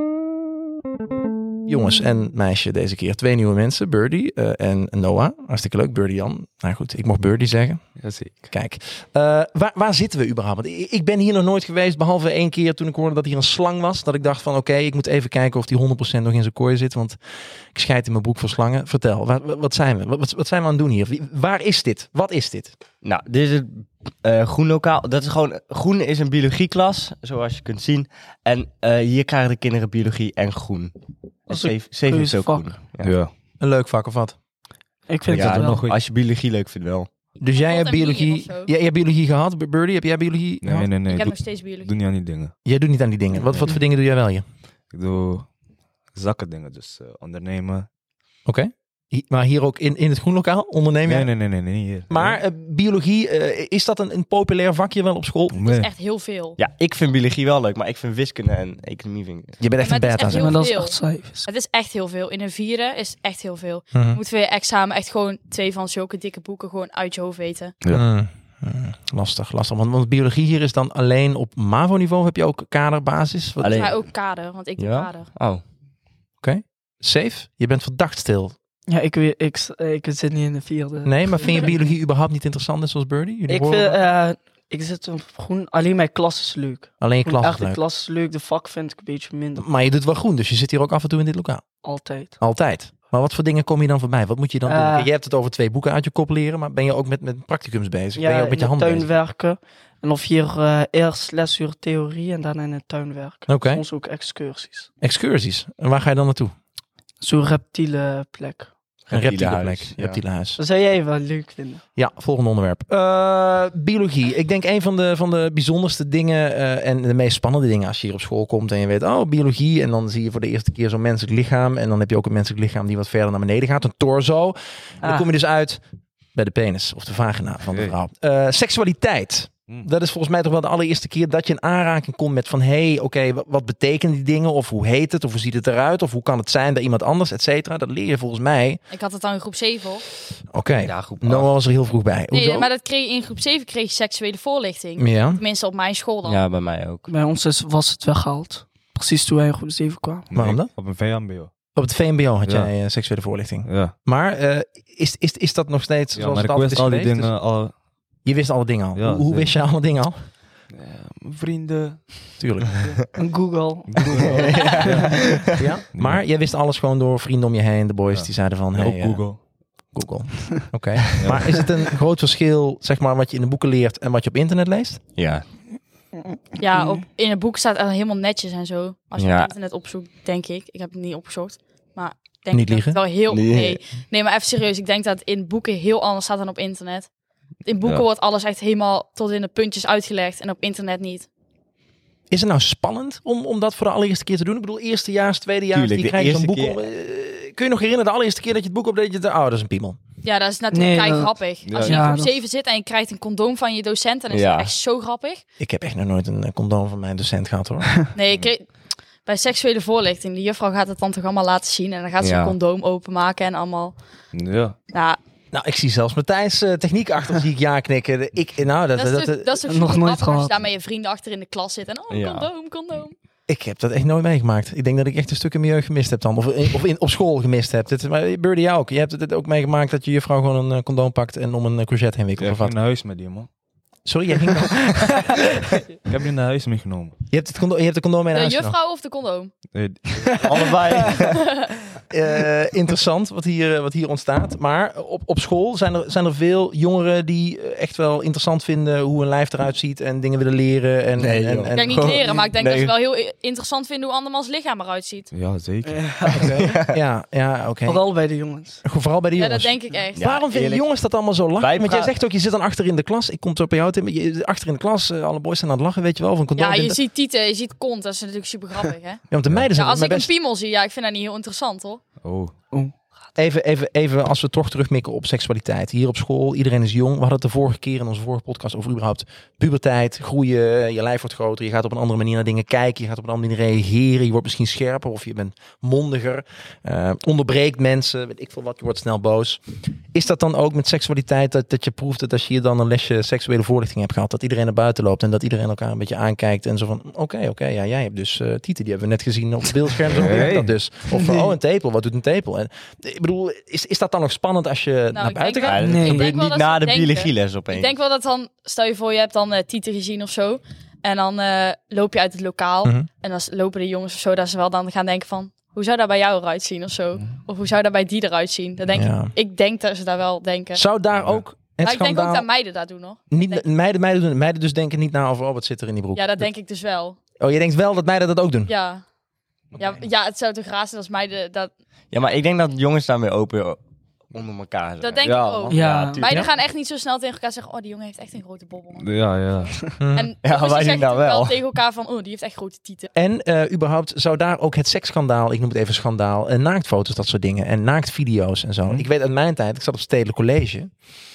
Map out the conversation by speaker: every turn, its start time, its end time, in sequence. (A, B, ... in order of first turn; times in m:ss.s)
0:01.7-0:07.8 A
0:08.0-0:08.5 B
0:08.5-0:17.2 A
0:17.7-0:22.7 A
0:23.0-0:30.9 C
0:31.5-0:33.1 C
0:31.5-0:32.7 D
0:33.0-0:33.3 B
0:33.6-0:34.4 A
0:35.1-0:35.8 D
0:35.3-0:36.0 B
0:35.3-0:37.1 C
0:35.4-0:35.7 A
0:37.4-0:40.9 A
0:37.4-0:38.7 E
0:40.6-0:42.5 B
0:41.1-0:41.9 E
0:42.6-0:44.4 A
0:43.4-0:43.8 B
0:44.9-0:45.4 B
0:46.1-0:47.9 B
0:48.4-0:51.3 A
0:51.0-0:52.4 B
0:52.1-0:55.6 A
0:55.5-0:55.9 B
0:55.6-0:56.6 E
0:56.6-0:59.6 C
0:59.6-1:00.5 A
0:59.8-1:07.7 E
1:00.2-1:01.4 D
1:03.9-1:04.2 A
1:07.9-1:13.9 A
1:13.6-1:14.0 C
1:13.7-1:15.3 E
1:14.8-1:15.6 C
1:16.4-1:18.5 A
1:18.9-1:21.9 D
1:21.0-1:24.0 A
1:23.5-1:29.6 D
1:27.0-1:27.8 A
1:29.6-1:31.6 A
1:31.8-1:32.4 D
1:32.4-1:39.1 A
1:34.6-1:35.1 D
1:38.2-1:44.9 D
1:43.5-1:43.8 A
1:45.0-1:46.5 A
1:47.2-1:48.7 D
1:49.1-1:50.2 C
1:49.1-1:50.6 A
1:50.6-1:51.8 D
1:52.0-2:05.8 A
2:05.0-2:05.3 D
2:06.3-2:18.8 A
2:07.7-2:08.0 B
2:18.9-2:20.0 E
2:20.5-2:22.7 A
2:20.8-2:21.5 C
2:22.3-2:26.4 E
2:25.0-2:25.4 A
2:26.2-2:27.1 C
2:27.1-2:30.3 D
2:30.3-2:31.5 B
2:30.3-2:30.7 A
2:31.7-2:37.3 A
2:32.4-2:32.7 B
2:33.6-2:33.9 B
2:36.1-2:37.7 B
2:38.2-2:40.2 A
2:38.9-2:39.5 B
2:40.7-2:43.0 B
2:42.4-2:42.7 A
2:43.1-2:44.3 D
2:43.9-2:45.4 B
2:44.0-2:45.0 A
2:44.3-2:45.5 C
2:45.6-2:49.2 A
2:45.9-2:46.2 B
2:48.1-2:49.4 B
2:49.9-2:55.0 A
2:51.2-2:51.5 B
2:55.2-2:55.4 C
2:56.6-3:07.1 E
2:59.2-2:59.5 C
3:02.5-3:03.0 A
3:03.3-3:03.8 C
3:07.6-3:11.3 E
3:12.3-3:20.0 A
3:15.7-3:16.8 C
3:20.2-3:25.4 E
3:20.7-3:22.4 D
3:21.5-3:22.2 B
3:24.3-3:24.7 C
3:25.6-3:27.9 A
3:28.1-3:34.0 E
3:32.2-3:32.6 C
3:34.3-3:34.7 B
3:34.9-3:35.2 E
3:35.5-3:39.6 A
3:38.9-3:43.1 E
3:39.7-3:40.6 D
3:42.1-3:42.5 C
3:43.5-3:52.8 A
3:52.4-3:53.5 B
3:54.0-3:55.8 A
3:56.1-3:57.1 B
3:57.3-3:58.7 A
3:58.3-3:59.5 E
3:59.7-4:00.7 B
4:00.4-4:01.6 C
4:00.9-4:01.7 E
4:02.1-4:12.2 A
4:11.2-4:12.9 C
4:11.7-4:15.3 E
4:15.3-4:16.3 B
4:15.8-4:16.5 D
4:16.3-4:18.1 A
4:16.6-4:17.0 C
4:17.8-4:18.8 D
4:18.8-4:27.0 A
4:19.4-4:20.4 E
4:20.1-4:20.9 C
4:21.6-4:22.2 C
4:26.6-4:32.0 E
4:29.3-4:30.3 A
4:32.2-4:32.5 B
4:33.4-4:49.6 A
4:50.1-5:05.8 A
5:00.1-5:00.7 B
5:01.1-5:01.5 D
5:05.1-5:20.8 E
5:05.7-5:07.9 C
5:05.8-5:06.3 D
5:18.9-5:19.3 A
5:20.7-5:22.4 A
5:21.1-5:21.4 B
5:21.8-5:23.6 E
5:23.3-5:26.5 A
5:26.1-5:27.2 E
5:27.4-5:28.7 A
5:28.7-5:29.0 E
5:29.7-5:31.7 E
5:32.1-5:33.8 C
5:34.3-5:36.5 C
5:35.0-5:43.1 E
5:35.2-5:36.0 B
5:35.7-5:36.2 D
5:39.0-5:39.9 B
5:40.0-5:40.3 A
5:40.4-5:41.6 C
5:43.1-5:50.9 A